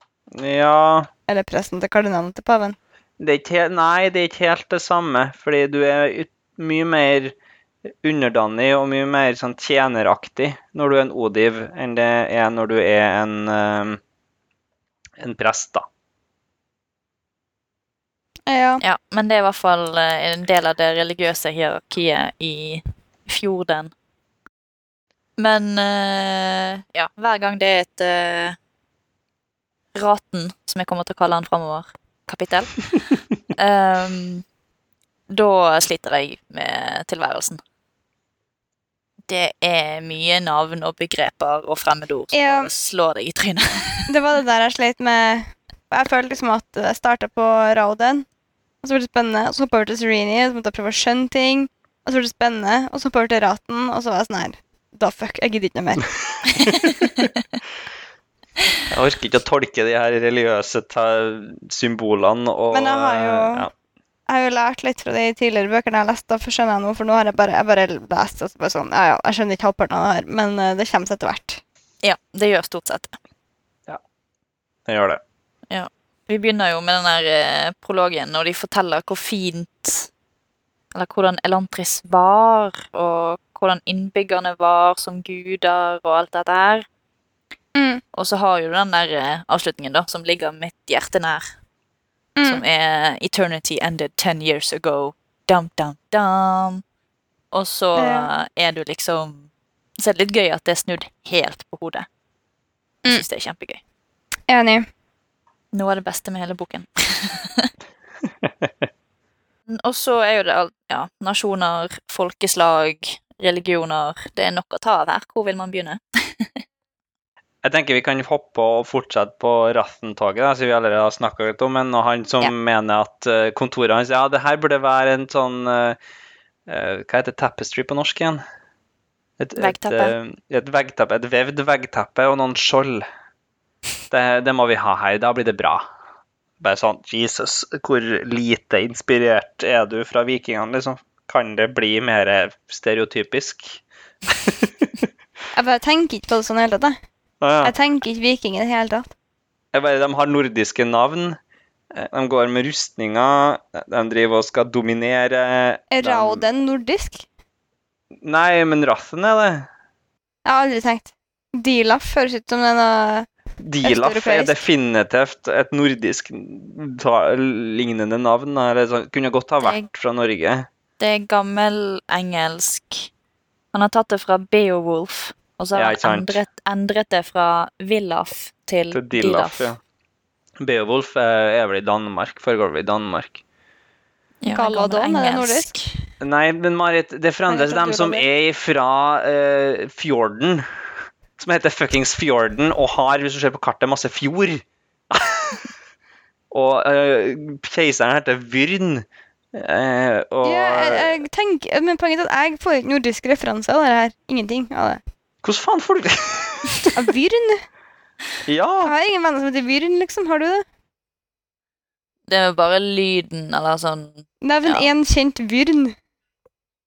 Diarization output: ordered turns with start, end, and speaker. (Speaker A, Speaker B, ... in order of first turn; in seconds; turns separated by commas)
Speaker A: 0.3-1.1, Speaker B: 1.3-2.8, Speaker A: 3.2-7.4, Speaker A: 8.0-14.0, Speaker A: 15.2-15.8, Speaker B: 18.5-18.8, Speaker C: 18.8-23.9, Speaker C: 25.4-28.6, Speaker C: 29.9-32.8, Speaker C: 33.5-34.4, Speaker C: 35.3-37.6, Speaker C: 39.3-44.1, Speaker B: 42.3-42.7, Speaker B: 44.1-48.3, Speaker B: 48.8-56.1, Speaker C: 56.5-57.3, Speaker A: 58.9-63.7, Speaker B: 62.7-63.7, Speaker B: 64.3-71.6, Speaker C: 72.0-73.2, Speaker A: 74.9-75.2, Speaker C: 75.7-80.1, Speaker C: 80.9-86.9, Speaker B: 87.8-88.0, Speaker C: 88.1-91.5, Speaker B: 92.4-92.6, Speaker C: 92.4-96.8, Speaker C: 97.5-102.1, Speaker B: 98.0-98.3, Speaker C: 103.1-103.8, Speaker B: 104.5-104.8, Speaker C: 105.7-107.7, Speaker C: 109.7-116.6, Speaker A: 117.6-126.0, Speaker A: 126.7-128.4, Speaker A: 129.4-133.1, Speaker C: 129.6-130.2, Speaker A: 134.1-135.8, Speaker A: 136.6-145.1, Speaker B: 145.5-147.0, Speaker A: 147.4-147.7, Speaker B: 147.6-149.1, Speaker A: 149.7-151.4, Speaker A: 151.9-156.4, Speaker B: 155.9-157.2, Speaker A: 158.2-159.7, Speaker B: 160.4-163.3, Speaker A: 163.6-170.7, Speaker B: 163.8-164.6, Speaker C: 169.6-169.9, Speaker C: 171.0-173.1, Speaker C: 173.7-179.7, Speaker A: 175.7-176.4, Speaker A: 178.9-179.8, Speaker A: 180.6-183.4, Speaker C: 184.4-185.9, Speaker B: 184.5-185.8, Speaker A: 186.2-190.7, Speaker B: 187.5-188.2, Speaker A: 191.4-195.7, Speaker A: 196.5-201.2, Speaker B: 200.4-205.0, Speaker A: 205.4-206.9, Speaker B: 206.9-207.6, Speaker A: 208.5-208.9, Speaker B: 208.8-210.7, Speaker C: 212.3-214.9, Speaker B: 214.4-216.0